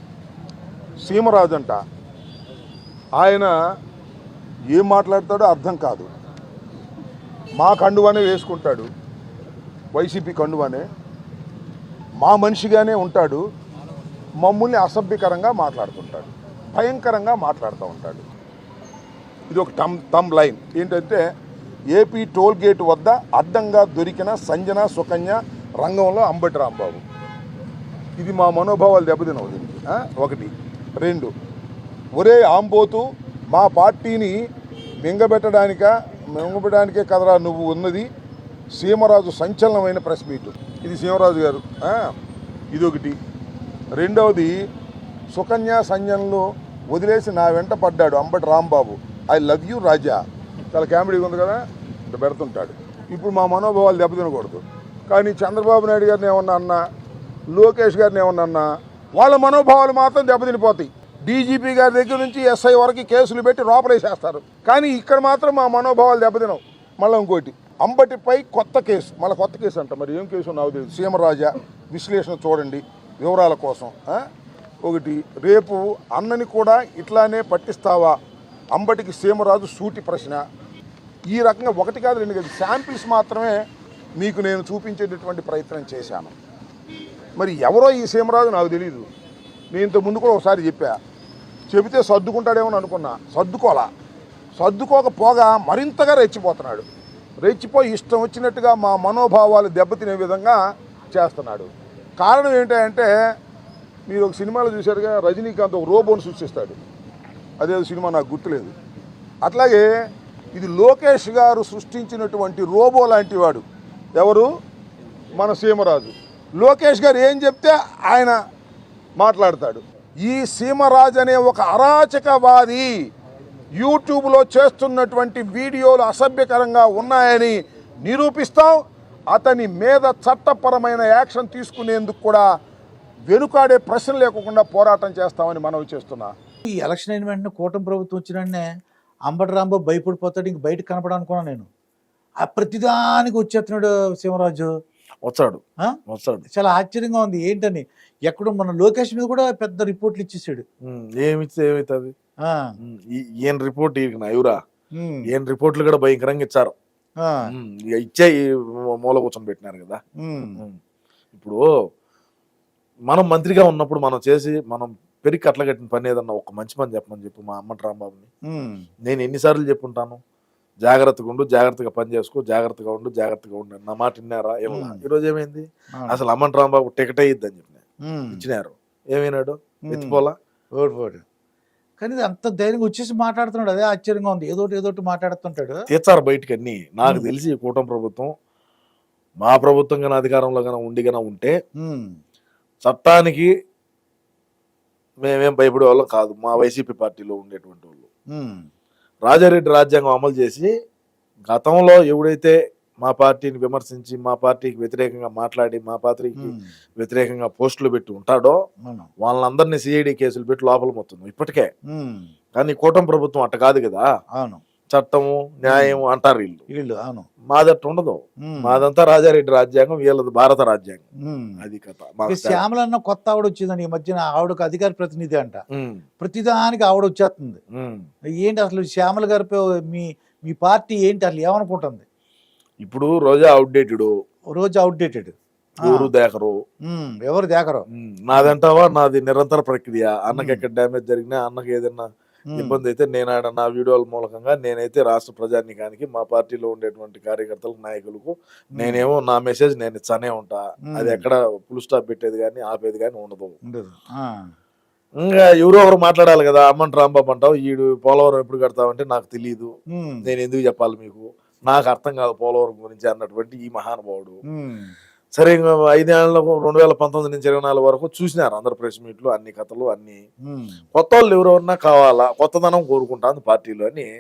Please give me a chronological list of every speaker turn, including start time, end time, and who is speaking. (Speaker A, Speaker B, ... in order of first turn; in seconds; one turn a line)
Speaker A: 1.0-1.8
Speaker A: 3.2-3.5
Speaker A: 4.7-6.1
Speaker A: 7.6-8.9
Speaker A: 9.9-10.8
Speaker A: 12.2-13.4
Speaker A: 14.4-18.2
Speaker A: 19.5-21.2
Speaker A: 21.9-27.0
Speaker A: 28.2-31.3
Speaker A: 32.2-34.4
Speaker A: 35.0-38.1
Speaker A: 38.8-42.1
Speaker A: 42.7-43.2
Speaker A: 44.0-44.6
Speaker A: 45.3-56.8
Speaker A: 57.5-74.2
Speaker A: 74.8-78.2
Speaker A: 78.7-80.4
Speaker A: 81.3-83.6
Speaker A: 84.2-86.4
Speaker A: 87.4-89.0
Speaker A: 89.7-91.0
Speaker A: 91.7-93.9
Speaker A: 94.6-96.9
Speaker A: 97.4-100.6
Speaker A: 101.1-103.1
Speaker A: 104.1-106.8
Speaker A: 107.6-108.7
Speaker A: 109.4-109.9
Speaker A: 110.5-113.6
Speaker A: 114.2-114.5
Speaker A: 115.4-118.3
Speaker A: 119.2-122.9
Speaker A: 123.8-128.8
Speaker A: 129.3-132.4
Speaker A: 133.3-136.3
Speaker B: 136.8-138.7
Speaker B: 139.3-141.7
Speaker B: 142.4-144.7
Speaker C: 145.2-146.5
Speaker B: 146.5-150.7
Speaker C: 150.8-152.1
Speaker C: 152.8-154.6
Speaker B: 155.0-155.3
Speaker C: 155.3-156.7
Speaker B: 157.2-157.5
Speaker C: 157.5-160.0
Speaker B: 160.2-160.6
Speaker C: 161.3-161.6
Speaker C: 163.1-168.3
Speaker B: 168.5-168.9
Speaker C: 169.1-170.2
Speaker C: 170.8-177.8
Speaker B: 174.7-175.0
Speaker B: 176.0-176.2
Speaker B: 178.1-178.4
Speaker C: 178.3-180.4
Speaker B: 179.9-180.2
Speaker B: 180.8-181.2
Speaker B: 182.0-185.9
Speaker C: 185.9-188.3
Speaker B: 187.1-187.3
Speaker C: 189.4-191.6
Speaker B: 191.8-192.2
Speaker C: 192.8-193.5
Speaker C: 195.2-198.1
Speaker B: 198.3-198.7
Speaker C: 199.2-200.7
Speaker C: 201.5-208.6
Speaker B: 206.4-206.7
Speaker B: 208.8-209.1
Speaker C: 209.2-211.7
Speaker B: 211.9-212.3
Speaker C: 212.6-214.1
Speaker C: 214.9-216.6
Speaker B: 215.7-216.0
Speaker B: 216.7-217.3
Speaker C: 217.5-221.0
Speaker B: 218.5-218.9
Speaker B: 221.3-221.6
Speaker C: 221.6-222.6
Speaker B: 222.3-225.6
Speaker C: 225.7-226.0
Speaker B: 226.2-227.6
Speaker C: 227.8-228.1
Speaker B: 228.4-232.1
Speaker C: 232.8-234.1
Speaker B: 234.6-236.1
Speaker C: 235.8-236.6
Speaker B: 236.9-238.5
Speaker C: 237.9-253.6
Speaker B: 240.3-240.6
Speaker B: 242.5-242.8
Speaker B: 248.7-249.0
Speaker B: 250.9-251.2
Speaker B: 253.7-254.4
Speaker C: 255.2-259.7
Speaker B: 259.9-260.3
Speaker C: 260.2-264.4
Speaker B: 264.5-264.9
Speaker C: 265.3-270.2
Speaker B: 270.5-270.8
Speaker C: 270.9-274.1